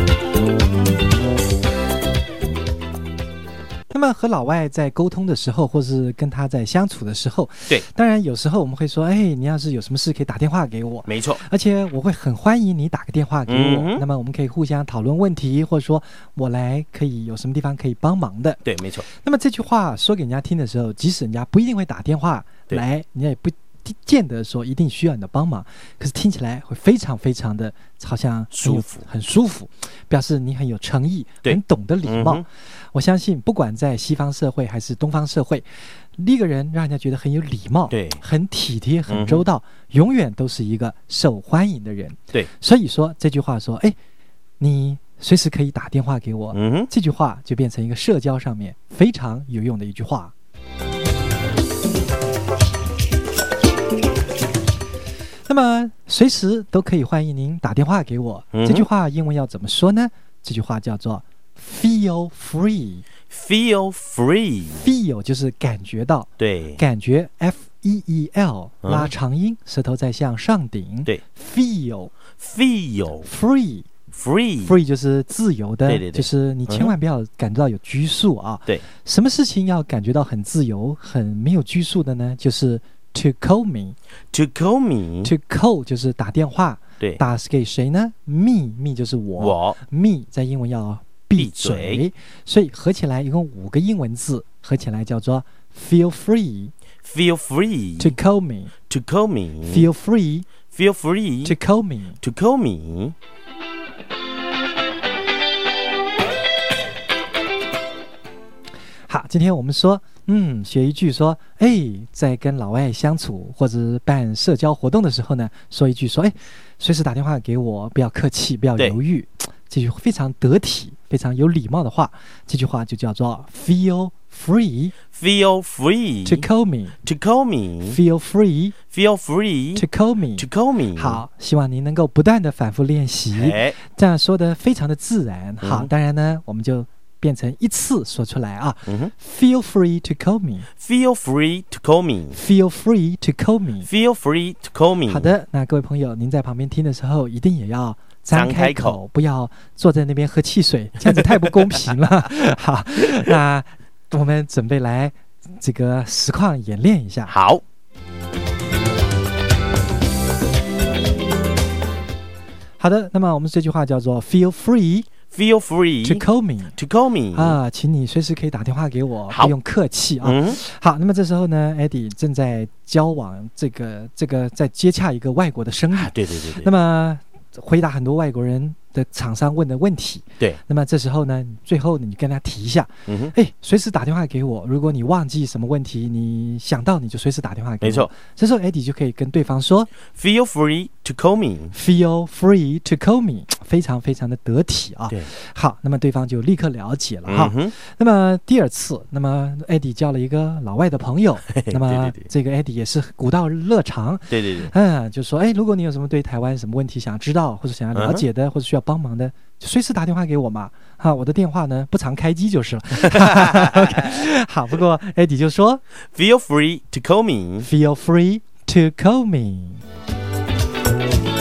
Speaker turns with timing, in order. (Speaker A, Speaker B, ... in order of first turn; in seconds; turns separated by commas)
Speaker A: 3.9-44.0, Speaker B: 11.1-11.4, Speaker B: 13.5-14.0, Speaker B: 18.6-19.0, Speaker B: 28.5-29.0, Speaker B: 31.4-32.4, Speaker B: 37.9-38.2, Speaker B: 39.1-39.5, Speaker A: 44.6-50.3, Speaker B: 46.5-46.9, Speaker A: 55.5-63.0, Speaker B: 58.5-58.9, Speaker B: 63.3-64.8, Speaker A: 64.7-72.1, Speaker B: 66.4-66.8, Speaker B: 68.8-69.1, Speaker B: 72.4-73.3, Speaker A: 73.2-73.9, Speaker B: 74.1-74.8, Speaker A: 74.6-84.0, Speaker B: 75.8-76.9, Speaker B: 84.3-85.3, Speaker A: 85.2-96.7, Speaker B: 89.4-89.8, Speaker B: 91.3-92.0, Speaker B: 97.0-98.2, Speaker A: 98.0-98.7, Speaker B: 98.9-99.9, Speaker A: 99.6-100.5, Speaker B: 100.7-101.5, Speaker A: 101.4-102.2, Speaker B: 102.2-103.1, Speaker A: 109.1-124.9, Speaker B: 125.1-126.5, Speaker A: 126.2-127.0, Speaker B: 127.0-128.0, Speaker A: 127.8-128.8, Speaker B: 128.9-129.8, Speaker A: 129.8-140.7, Speaker B: 130.4-131.2, Speaker B: 133.3-133.8, Speaker B: 135.6-135.9, Speaker B: 138.8-139.1, Speaker B: 140.8-142.4, Speaker A: 142.3-143.9, Speaker B: 143.8-145.3, Speaker A: 145.1-157.3, Speaker B: 148.3-149.0, Speaker B: 151.4-151.9, Speaker B: 157.3-157.6, Speaker A: 162.8-165.1, Speaker B: 165.3-166.2, Speaker A: 166.0-166.8, Speaker B: 166.8-167.6, Speaker A: 167.3-189.9, Speaker B: 170.2-170.6, Speaker B: 175.9-176.7, Speaker B: 183.1-183.3, Speaker B: 187.8-188.1, Speaker B: 190.1-191.8, Speaker A: 191.7-215.8, Speaker B: 197.2-197.7, Speaker B: 201.6-202.3, Speaker B: 204.3-204.7, Speaker B: 207.9-208.2, Speaker B: 213.1-214.0, Speaker B: 216.1-217.7, Speaker A: 217.6-219.8